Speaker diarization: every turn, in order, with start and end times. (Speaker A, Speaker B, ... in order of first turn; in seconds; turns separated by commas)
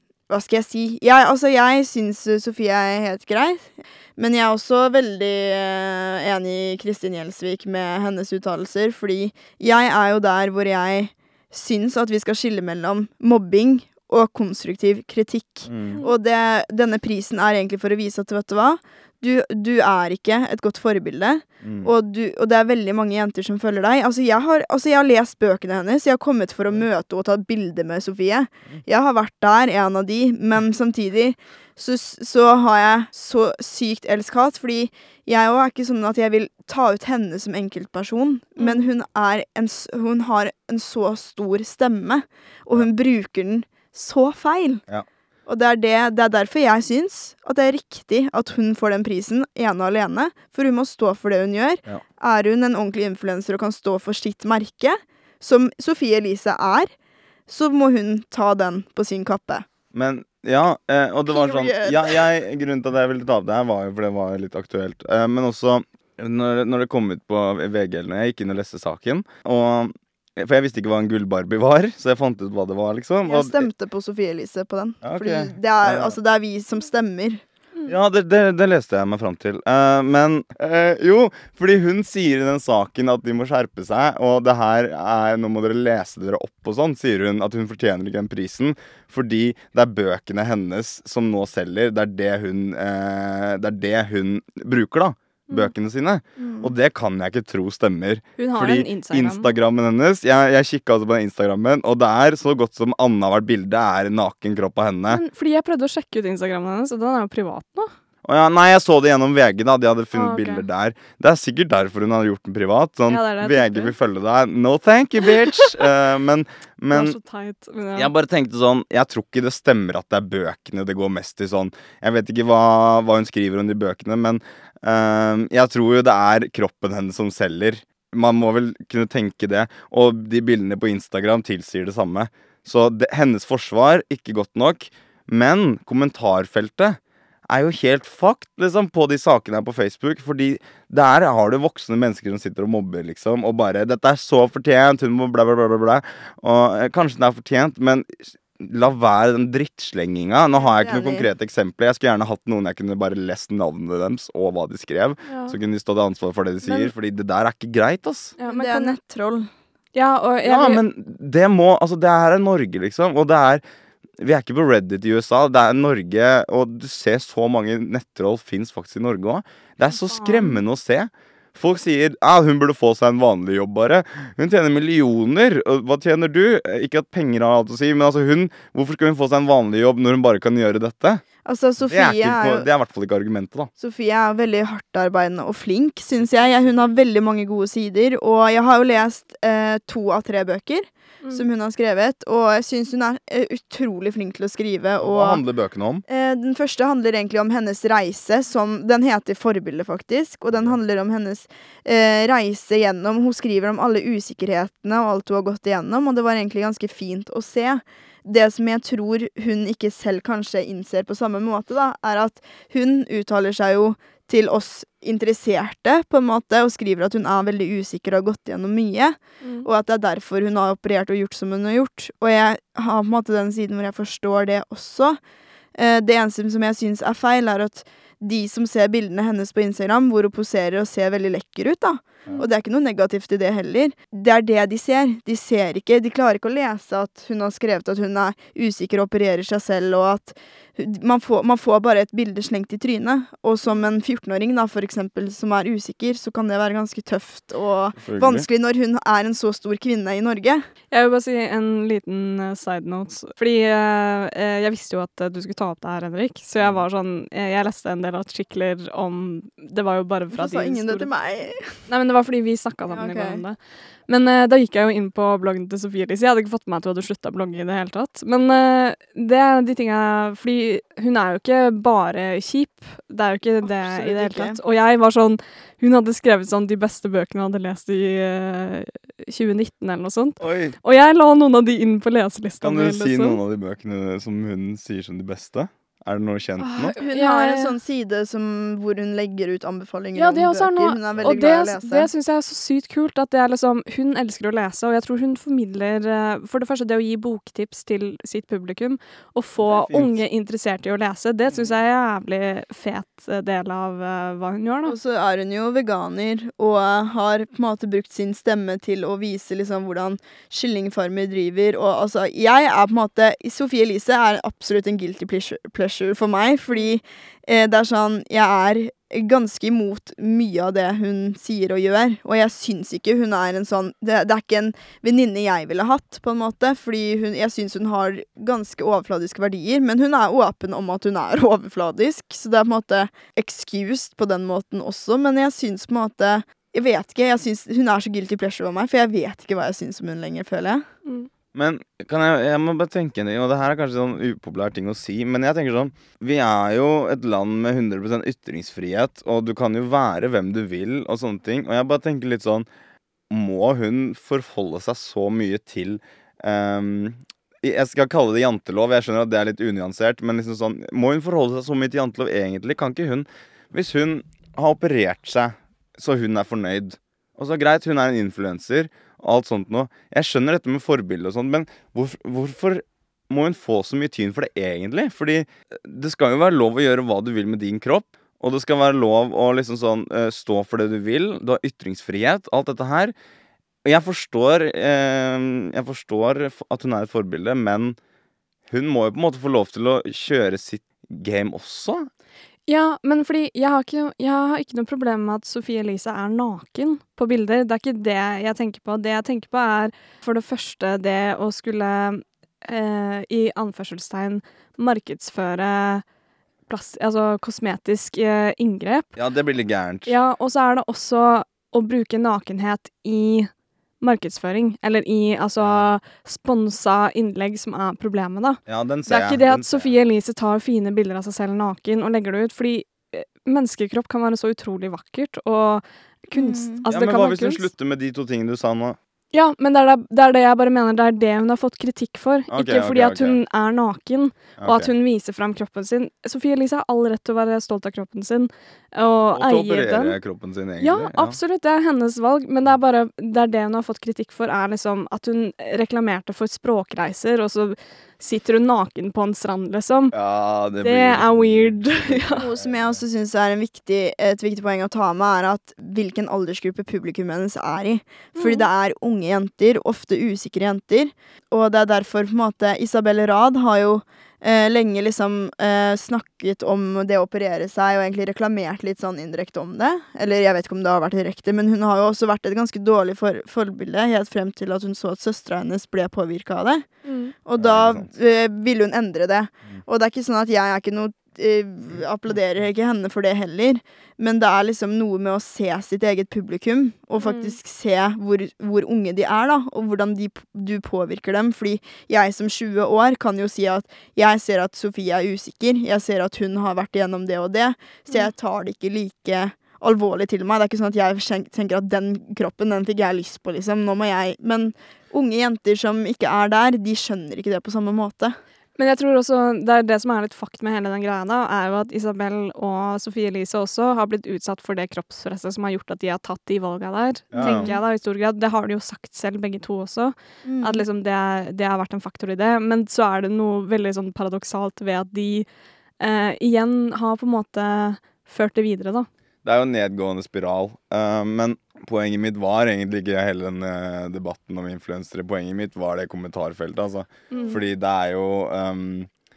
Speaker A: 0.3-44.8, Speaker B: 15.7-16.0, Speaker B: 21.6-21.9, Speaker C: 38.6-38.9, Speaker A: 45.5-56.9, Speaker A: 57.5-59.6, Speaker B: 59.9-73.7, Speaker A: 61.3-62.2, Speaker A: 73.3-77.4, Speaker B: 75.0-76.2, Speaker B: 77.9-105.2, Speaker C: 98.4-99.5, Speaker C: 105.1-107.9, Speaker B: 108.2-117.2, Speaker C: 110.1-110.7, Speaker C: 113.1-114.0, Speaker C: 116.9-118.1, Speaker B: 118.0-158.3, Speaker A: 150.6-151.3, Speaker C: 155.3-155.6, Speaker C: 156.7-156.9, Speaker C: 158.4-159.0, Speaker A: 158.5-159.5, Speaker C: 159.9-160.8, Speaker B: 160.4-163.6, Speaker B: 164.2-181.2, Speaker C: 169.9-170.6, Speaker A: 181.4-182.7, Speaker B: 181.9-183.7, Speaker A: 183.8-195.4, Speaker B: 195.0-196.0, Speaker A: 196.1-225.2, Speaker C: 219.4-219.7, Speaker A: 225.8-250.6, Speaker B: 248.0-248.5, Speaker C: 250.9-261.1, Speaker A: 260.3-261.8, Speaker C: 261.9-263.6, Speaker A: 262.9-263.4, Speaker C: 264.1-283.4, Speaker A: 273.6-274.6, Speaker B: 280.4-280.8, Speaker B: 282.6-286.9, Speaker C: 286.6-287.7, Speaker A: 287.0-292.1, Speaker C: 290.2-305.0, Speaker B: 299.6-300.2, Speaker A: 304.9-340.9, Speaker B: 341.6-352.7, Speaker B: 353.3-383.1, Speaker B: 383.9-388.0, Speaker B: 388.7-392.1, Speaker C: 392.7-406.0, Speaker C: 406.7-409.1, Speaker B: 409.2-410.1, Speaker C: 410.1-413.5, Speaker C: 414.0-427.7, Speaker B: 415.6-415.9, Speaker B: 418.7-419.9, Speaker A: 426.3-426.9, Speaker B: 426.9-429.0, Speaker C: 429.3-440.2, Speaker B: 432.5-433.4, Speaker B: 434.6-434.9, Speaker B: 439.3-441.4, Speaker C: 440.8-450.1, Speaker B: 450.1-453.0, Speaker C: 450.8-452.5, Speaker A: 452.4-476.9, Speaker C: 458.4-458.7, Speaker C: 477.0-477.3, Speaker A: 477.4-508.4, Speaker B: 477.6-478.1, Speaker C: 487.2-487.6, Speaker C: 508.8-525.5, Speaker B: 517.3-517.7, Speaker A: 517.4-517.8, Speaker A: 520.4-520.9, Speaker C: 526.0-529.1, Speaker B: 529.4-539.1, Speaker C: 537.3-537.6